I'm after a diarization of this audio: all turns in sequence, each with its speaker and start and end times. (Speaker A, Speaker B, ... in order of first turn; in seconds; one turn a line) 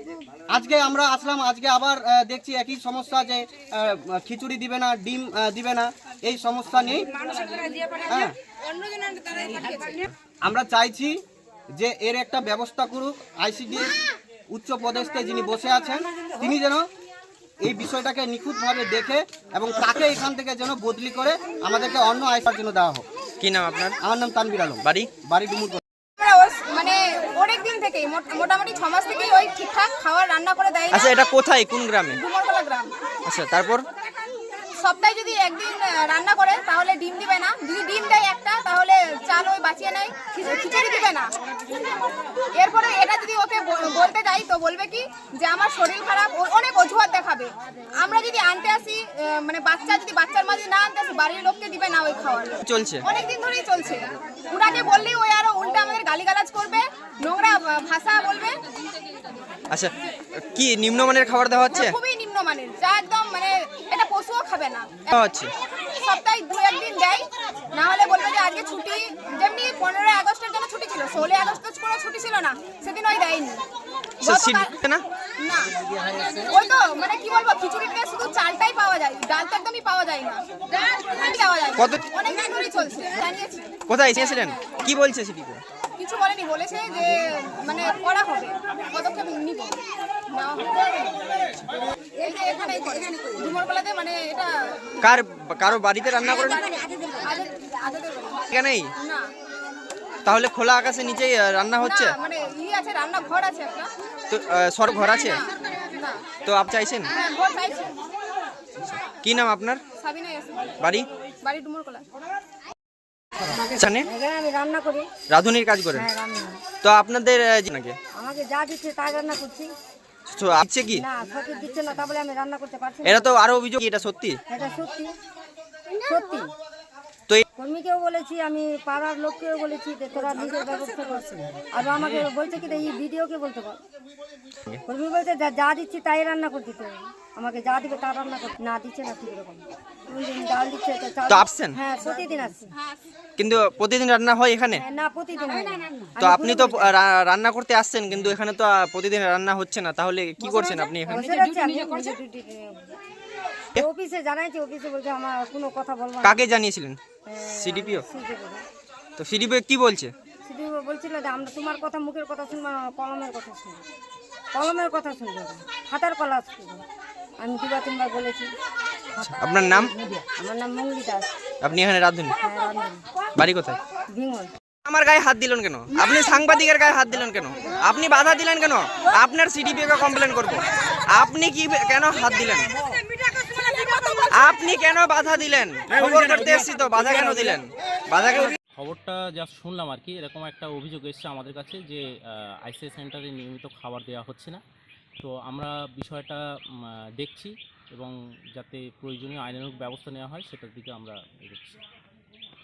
Speaker A: 0.5-7.1
Speaker A: 8.1-8.3
Speaker B: 9.3-9.8
Speaker A: 10.4-11.2
Speaker A: 11.8-13.9
Speaker A: 14.5-16.9
Speaker A: 17.6-23.1
Speaker C: 23.4-24.0
Speaker A: 24.0-25.8
Speaker C: 24.8-25.2
Speaker B: 26.2-31.2
Speaker C: 30.9-32.2
Speaker B: 32.2-32.9
Speaker C: 33.3-33.9
Speaker B: 34.8-41.3
Speaker B: 42.5-58.6
Speaker C: 52.6-53.0
Speaker C: 59.7-62.0
Speaker B: 61.7-65.2
Speaker C: 65.1-65.5
Speaker B: 66.0-73.6
Speaker B: 74.2-74.8
Speaker C: 74.2-75.0
Speaker B: 75.4-83.8
Speaker C: 83.9-85.6
Speaker B: 86.0-91.2
Speaker B: 92.2-94.9
Speaker C: 95.0-96.7
Speaker B: 96.4-99.3
Speaker C: 98.5-98.9
Speaker C: 100.2-102.2
Speaker B: 101.8-103.9
Speaker C: 104.3-105.5
Speaker B: 105.0-106.2
Speaker C: 106.4-107.1
Speaker B: 107.1-107.9
Speaker C: 108.8-109.8
Speaker B: 110.0-110.9
Speaker C: 110.8-111.1
Speaker B: 111.4-112.0
Speaker C: 113.6-114.1
Speaker D: 114.0-115.1
Speaker C: 115.3-116.1
Speaker D: 115.9-116.6
Speaker C: 116.8-118.0
Speaker D: 118.2-119.7
Speaker C: 120.3-121.0
Speaker D: 120.9-123.4
Speaker C: 123.0-124.4
Speaker D: 124.5-125.1
Speaker D: 126.0-126.5
Speaker D: 127.5-133.8
Speaker D: 134.8-142.7
Speaker C: 141.3-141.8
Speaker C: 143.4-144.8
Speaker D: 144.8-146.9
Speaker C: 146.2-151.1
Speaker B: 151.0-152.1
Speaker D: 151.1-152.9
Speaker D: 153.8-156.4
Speaker C: 156.2-157.0
Speaker D: 157.3-158.7
Speaker C: 157.6-158.0
Speaker C: 159.2-160.1
Speaker D: 160.4-163.8
Speaker D: 164.5-166.8
Speaker D: 167.4-168.5
Speaker C: 169.2-169.9
Speaker D: 169.3-171.3
Speaker C: 171.6-172.3
Speaker D: 172.4-173.0
Speaker C: 173.4-173.8
Speaker D: 174.1-174.5
Speaker C: 174.8-182.7
Speaker C: 184.3-188.6
Speaker E: 188.7-194.6
Speaker E: 195.2-201.8